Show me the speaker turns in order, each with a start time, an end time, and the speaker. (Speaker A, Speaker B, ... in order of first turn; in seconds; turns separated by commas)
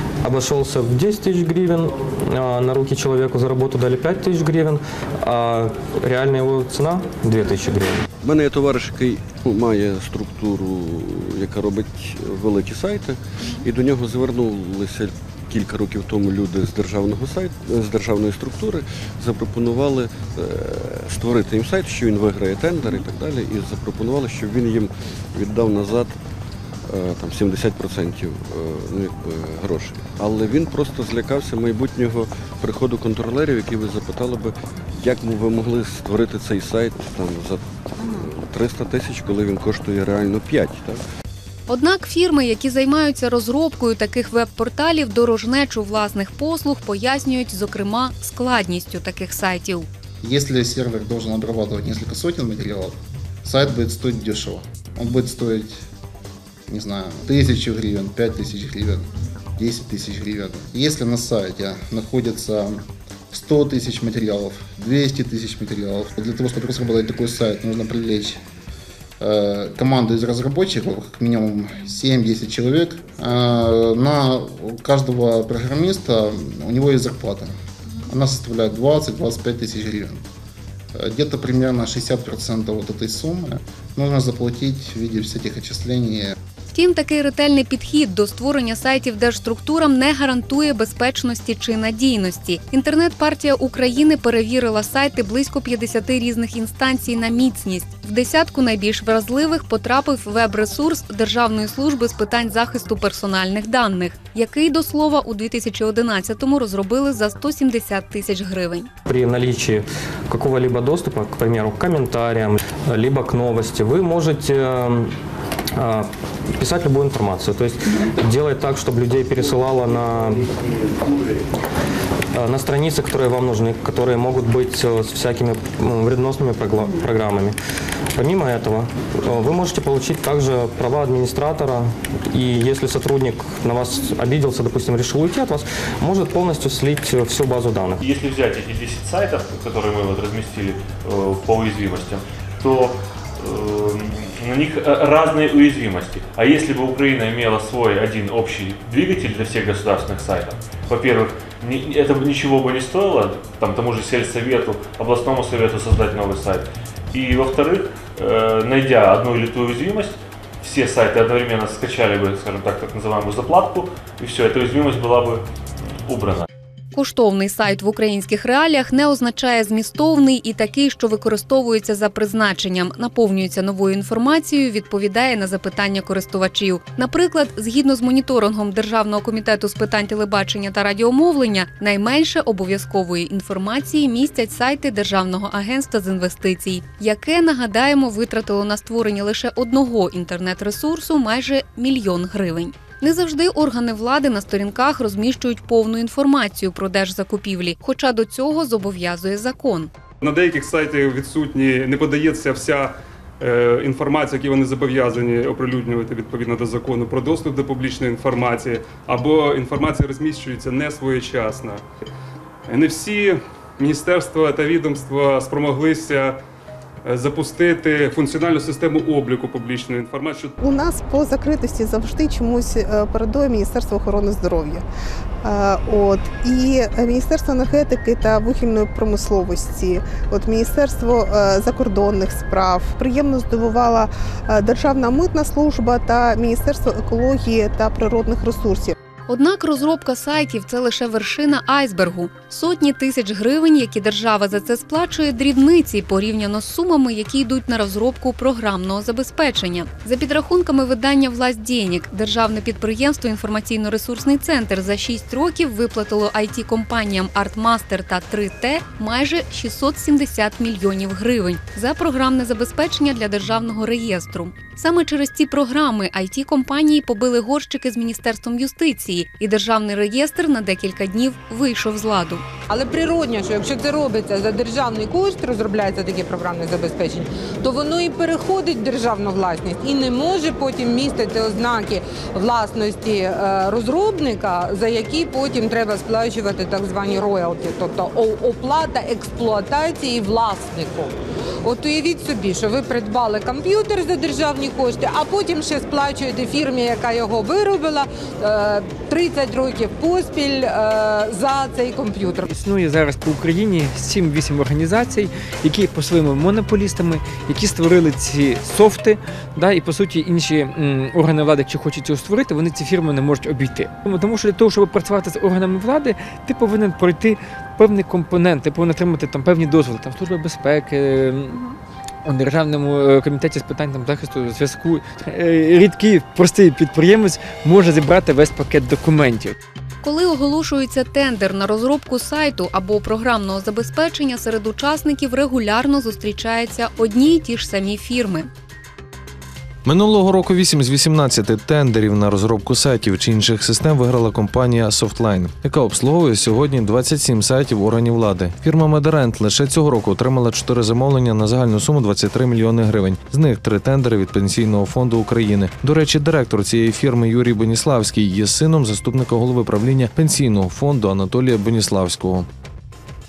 Speaker A: 0.2-8.0, Speaker B: 8.2-26.1, Speaker B: 26.9-41.0, Speaker C: 41.7-49.9, Speaker D: 50.2-55.8, Speaker D: 56.7-68.4, Speaker D: 69.2-77.5, Speaker D: 78.1-80.2, Speaker D: 80.9-86.3, Speaker C: 86.7-108.9, Speaker A: 109.1-115.1, Speaker A: 115.8-120.5, Speaker A: 122.3-127.5, Speaker A: 128.1-138.0, Speaker E: 138.0-165.4, Speaker E: 166.1-166.4, Speaker C: 166.9-199.9, Speaker F: 200.2-211.8, Speaker F: 212.7-216.3, Speaker F: 217.1-220.5, Speaker G: 220.6-224.8, Speaker G: 225.4-238.9, Speaker C: 239.3-272.4, Speaker H: 272.7-302.4, Speaker I: 302.4-321.6, Speaker I: 322.2-329.6, Speaker C: 330.0-338.5, Speaker J: 339.8-362.5